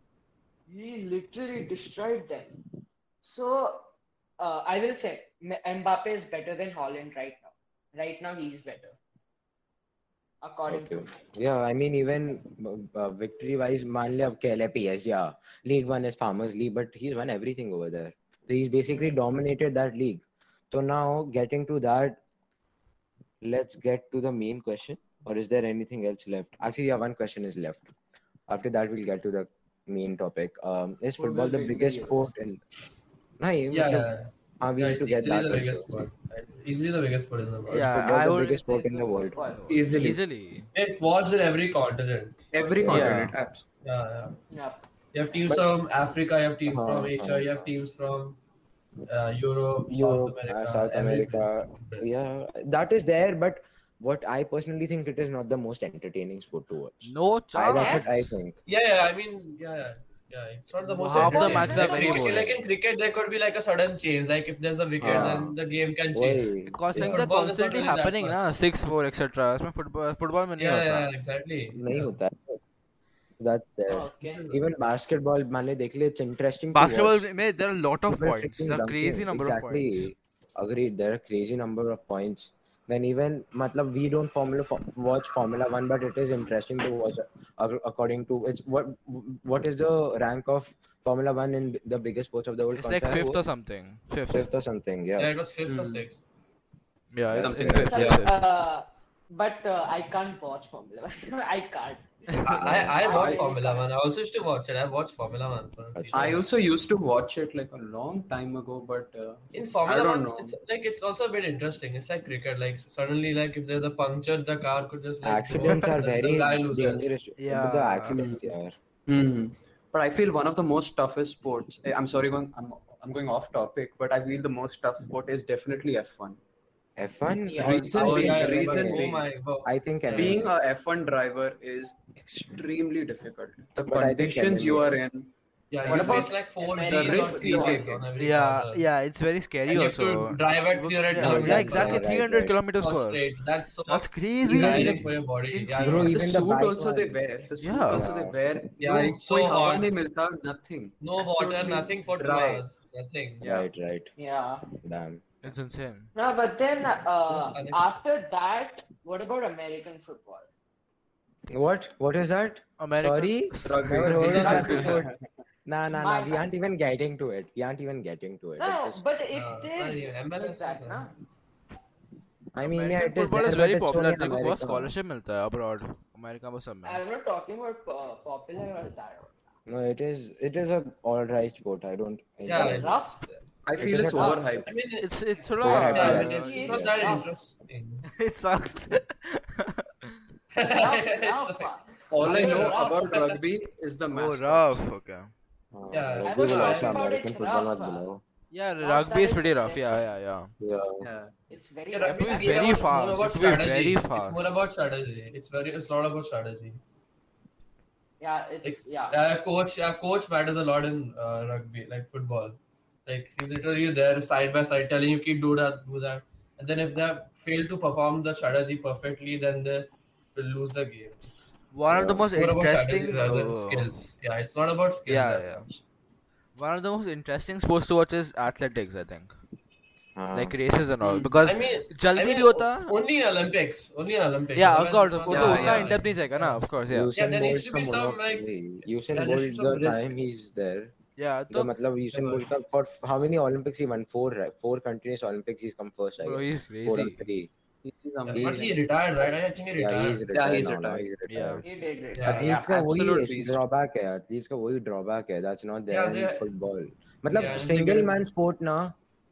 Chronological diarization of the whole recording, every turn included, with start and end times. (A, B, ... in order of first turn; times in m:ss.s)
0:00.7-0:02.6 A
0:03.2-0:09.0 A
0:10.4-0:11.1 A
0:10.7-0:22.2 B
0:23.4-0:27.9 B
0:28.5-0:32.6 B
0:31.2-0:32.3 A
0:33.4-0:34.1 B
0:33.7-0:38.0 C
0:34.6-0:35.9 B
0:37.7-0:40.7 D
0:37.7-0:39.5 B
0:38.8-0:39.7 A
0:39.7-0:40.2 E
0:40.7-0:43.2 C
0:42.5-0:43.7 E
0:42.8-0:43.3 B
0:42.9-0:43.3 D
0:43.8-0:44.4 C
0:44.5-0:44.8 A
0:45.1-0:48.4 C
0:46.7-0:47.7 B
0:49.1-0:52.0 C
0:49.9-0:58.6 B
0:57.0-0:58.3 D
0:57.7-0:58.0 A
0:58.7-1:08.5 C
1:00.8-1:02.6 D
1:01.1-1:01.8 B
1:01.3-1:02.2 A
1:05.0-1:05.5 B
1:06.1-1:07.3 B
1:06.7-1:11.1 D
1:10.6-1:12.1 C
1:11.7-1:12.6 B
1:13.4-1:17.2 B
1:13.9-1:14.4 A
1:14.2-1:14.6 C
1:16.7-1:20.1 D
1:18.1-1:33.4 B
1:32.8-1:34.5 D
1:34.3-1:35.3 B
1:35.2-1:36.2 C
1:35.7-1:36.0 E
1:37.1-1:38.4 D
1:37.3-1:38.0 B
1:37.4-1:38.2 E
1:37.8-1:42.1 A
1:42.4-1:46.5 C
1:42.5-1:43.0 B
1:43.0-1:43.9 A
1:43.0-1:43.4 E
1:45.9-1:46.3 B
1:46.1-1:50.6 E
1:49.5-1:57.1 C
1:55.2-1:58.7 B
1:57.4-1:58.2 D
1:58.2-1:58.4 E
1:59.1-2:06.4 E
2:07.0-2:10.5 B
2:07.4-2:07.8 A
2:07.6-2:09.2 E
2:07.8-2:10.4 C
2:10.1-2:15.3 E
2:13.8-2:15.0 B
2:15.7-2:18.9 C
2:15.8-2:18.0 E
2:15.9-2:16.2 B
2:16.6-2:17.9 A
2:18.2-2:23.2 D
2:19.6-2:22.2 C
2:21.1-2:22.6 B
2:22.8-2:26.2 C
2:23.9-2:26.1 D
2:24.5-2:25.1 B
2:25.8-2:27.2 B
2:26.1-2:32.6 E
2:27.6-2:28.1 D
2:27.9-2:28.4 B
2:28.8-2:29.9 C
2:31.0-2:33.4 C
2:33.4-2:33.7 E
2:33.4-2:34.1 B
2:34.2-2:34.6 A
2:34.8-2:35.2 B
2:35.4-2:36.1 D
2:36.1-2:40.5 A
2:37.4-2:37.8 C
2:41.5-2:45.1 B
2:42.8-2:44.1 D
2:43.6-2:45.2 E
2:44.1-2:45.0 C
2:45.6-2:49.0 B
2:45.9-2:46.5 A
2:48.6-2:51.1 A
2:49.3-2:51.1 C
2:52.5-2:54.9 B
2:52.6-2:57.0 D
2:56.8-2:59.4 A
2:59.6-3:03.0 B
3:02.4-3:03.4 C
3:02.5-3:03.2 A
3:03.6-3:04.7 E
3:03.8-3:04.6 B
3:03.9-3:04.4 A
3:04.6-3:05.1 C
3:05.0-3:07.1 D
3:05.6-3:06.8 B
3:05.6-3:08.0 C
3:05.7-3:07.3 A
3:08.1-3:10.1 D
3:10.5-3:13.4 C
3:10.7-3:13.3 A
3:12.1-3:14.8 E
3:14.1-3:15.3 D
3:15.7-3:18.2 B
3:15.9-3:17.0 C
3:16.2-3:18.1 A
3:18.5-3:20.5 D
3:18.8-3:20.1 A
3:20.6-3:21.1 B
3:21.0-3:21.3 E
3:21.5-3:23.0 A
3:21.9-3:26.8 C
3:22.0-3:24.6 D
3:28.2-3:29.2 A
3:28.6-3:41.5 C
3:41.7-3:43.9 D
3:41.9-3:42.3 B
3:42.3-3:45.8 C
3:45.1-3:45.6 D
3:46.6-3:49.3 D
3:50.2-3:50.6 B
3:50.3-3:52.9 D
3:51.1-3:56.6 C
3:54.5-3:57.1 D
3:55.3-3:55.9 E
3:56.9-4:00.9 B
3:57.1-3:58.5 C
3:59.0-4:00.1 C
4:01.2-4:01.7 D
4:01.5-4:07.5 B
4:06.2-4:07.3 D
4:07.8-4:08.7 E
4:08.2-4:10.2 C
4:08.3-4:08.7 B
4:09.8-4:11.6 B
4:10.3-4:11.0 E
4:11.3-4:11.6 D
4:11.6-4:12.7 A
4:12.2-4:12.5 C
4:12.3-4:19.0 B
4:12.5-4:13.6 E
4:15.9-4:16.5 C
4:17.3-4:18.1 C